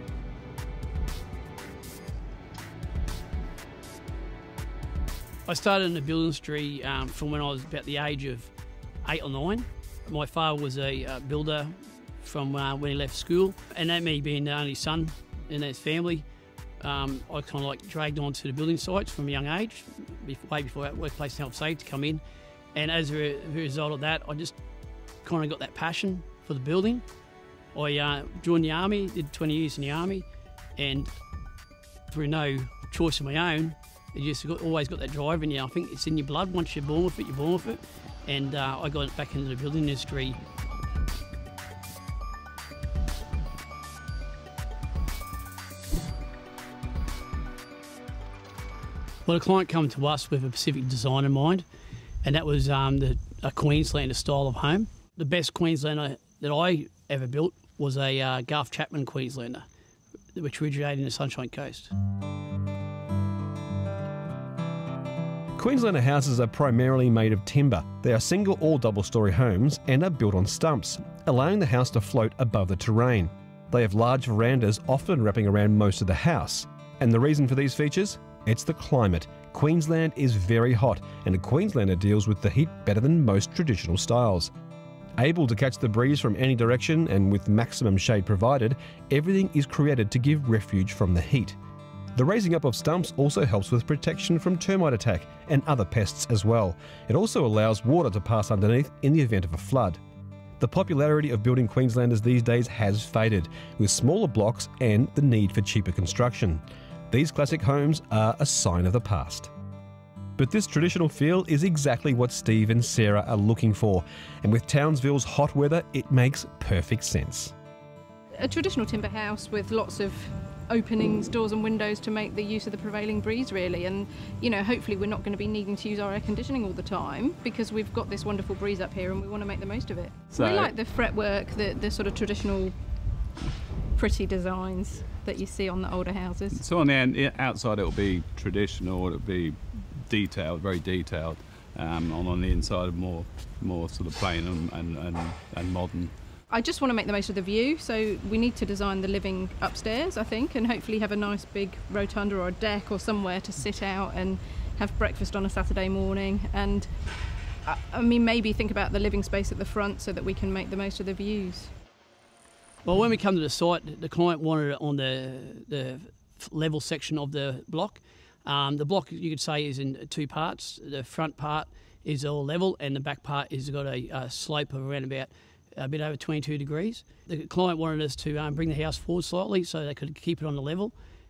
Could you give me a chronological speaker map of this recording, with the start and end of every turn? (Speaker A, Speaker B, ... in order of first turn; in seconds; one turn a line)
Speaker A: 5.5-8.5
Speaker A: 9.0-16.2
Speaker A: 16.8-22.2
Speaker A: 22.7-24.6
Speaker A: 25.2-27.0
Speaker A: 27.7-31.1
Speaker A: 32.1-40.4
Speaker A: 49.3-51.7
Speaker A: 52.2-59.7
Speaker A: 60.3-61.9
Speaker B: 65.6-84.5
Speaker B: 85.2-91.6
Speaker B: 92.2-100.0
Speaker B: 100.6-109.5
Speaker B: 110.4-117.5
Speaker C: 118.4-132.8
Speaker D: 130.3-130.7
Speaker C: 133.9-136.6
Speaker D: 136.5-146.1
Speaker C: 146.5-157.0
Speaker C: 157.7-161.7
Speaker A: 162.8-180.9